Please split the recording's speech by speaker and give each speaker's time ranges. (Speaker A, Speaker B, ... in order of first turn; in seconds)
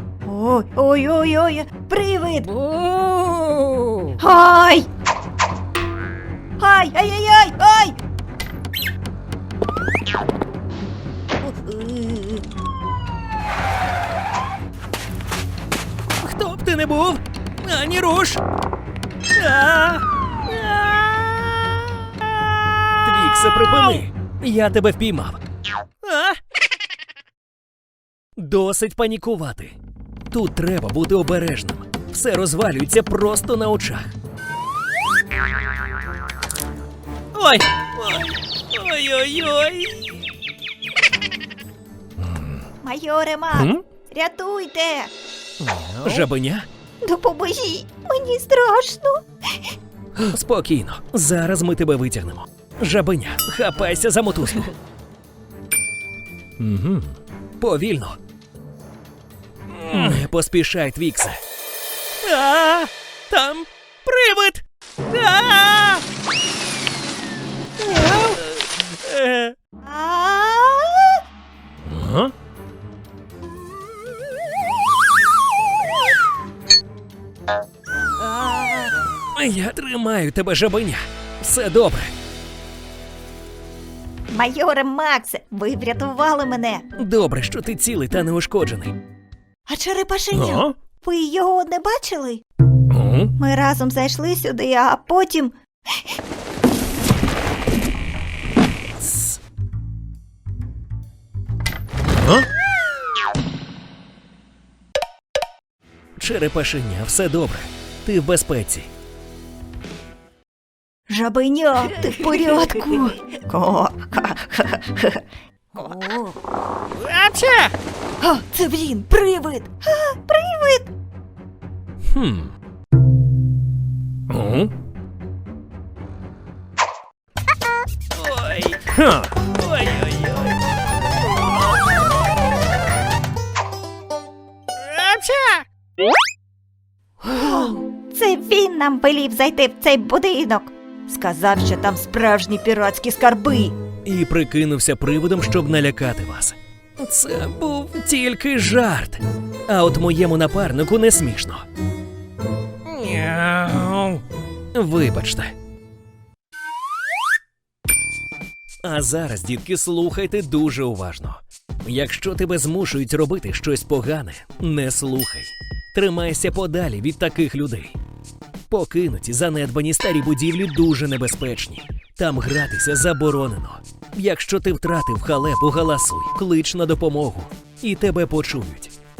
Speaker A: 0.2-2.5, 4.2-4.9, 6.6-8.0, 11.4-12.5, 42.8-45.1, 47.0-49.2, 69.8-71.2, 78.2-78.9, 84.3-86.8, 89.7-92.4, 93.4-95.5, 111.1-115.2, 115.7-116.4, 118.2-120.9, 137.2-143.8
Speaker B: 2.5-4.1, 16.2-18.4, 19.4-21.4, 22.9-25.4, 26.0-26.4, 28.4-29.8, 30.3-34.1, 37.3-40.2, 42.2-42.6, 43.5-43.8, 45.6-46.7, 50.2-54.8, 56.6-58.2, 59.7-61.4, 62.2-66.0, 67.8-69.5, 71.8-72.3, 79.3-82.1, 87.0-89.0, 90.3-90.7, 92.9-93.3, 102.2-102.5, 106.2-108.9, 117.0-117.7, 122.1-122.5, 124.3-124.7, 128.1-130.6, 131.3-131.8, 134.8-135.7, 144.1-151.7, 152.8-154.2, 154.7-155.6, 158.8-168.0, 168.7-178.9